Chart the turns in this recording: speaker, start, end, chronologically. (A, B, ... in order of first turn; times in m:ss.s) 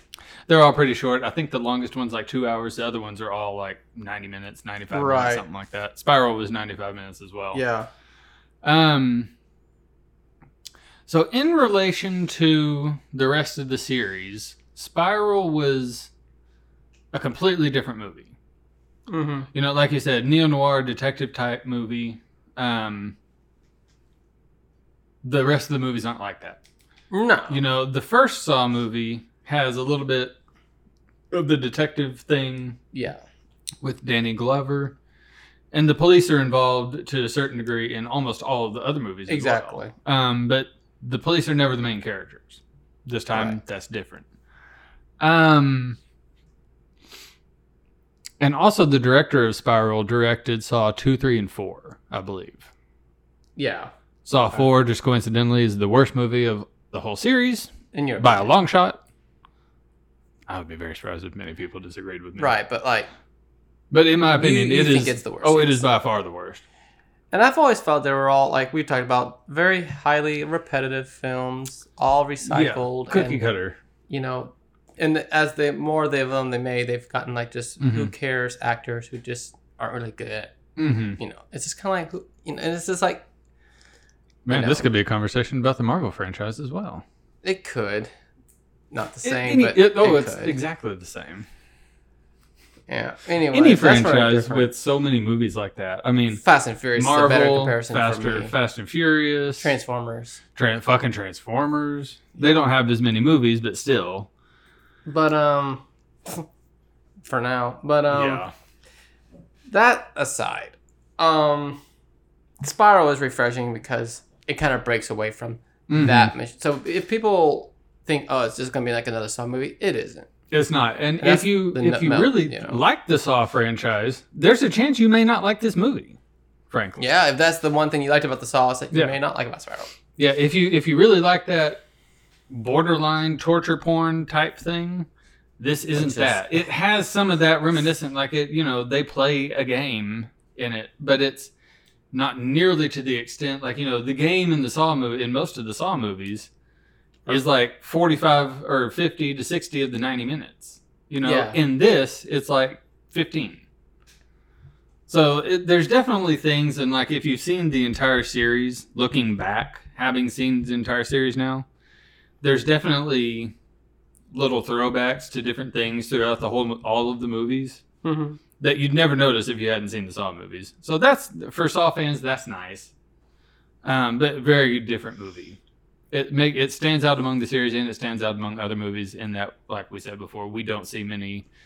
0:00.5-0:07.6 A
0:04.9-0:05.4 B
0:07.5-0:07.9 B
0:08.6-0:09.3 A
0:11.1-0:16.1 A
0:17.1-0:18.3 A
0:19.1-0:19.5 B
0:19.5-0:23.2 A
0:25.2-0:26.6 A
0:27.1-0:27.6 B
0:27.5-0:30.3 A
0:31.3-0:32.8 A
0:32.9-0:33.2 B
0:33.8-0:35.0 A
0:35.7-0:44.2 A
0:39.3-0:39.9 B
0:43.3-0:43.6 B
0:45.2-0:46.0 A
0:48.4-0:52.7 A
0:53.6-0:53.9 B
0:54.2-0:59.0 A
0:57.9-0:58.5 B
1:00.5-1:02.5 A
1:02.4-1:03.1 B
1:03.9-1:06.6 A
1:04.4-1:05.9 B
1:07.3-1:13.4 B
1:12.4-1:13.8 A
1:14.1-1:20.6 B
1:17.8-1:18.1 A
1:20.8-1:21.2 A
1:21.2-1:23.2 B
1:24.4-1:27.0 A
1:24.5-1:24.9 B
1:27.4-1:28.1 B
1:28.9-1:30.5 B
1:29.2-1:31.4 A
1:32.9-1:34.7 B
1:33.5-1:36.4 A
1:36.4-1:38.5 B
1:37.0-1:39.7 A
1:39.6-1:40.4 B
1:40.6-1:44.3 A
1:45.0-1:46.4 B
1:47.2-1:48.4 B
1:48.1-1:48.5 A
1:49.7-1:51.8 B
1:52.6-2:00.3 B
1:55.9-1:56.3 A
2:00.5-2:06.2 A
2:01.2-2:02.8 B
2:06.7-2:07.0 A
2:07.0-2:09.9 B
2:10.2-2:11.8 A
2:12.5-2:15.1 A
2:15.6-2:21.5 A
2:15.9-2:16.6 B
2:22.1-2:26.5 A
2:27.3-2:33.6 A
2:31.2-2:31.6 B
2:35.1-2:41.7 A
2:42.4-2:43.5 A
2:44.3-2:47.8 A
2:48.0-2:48.4 B
2:48.6-2:52.9 A
2:53.8-2:55.6 A
2:56.1-3:01.4 A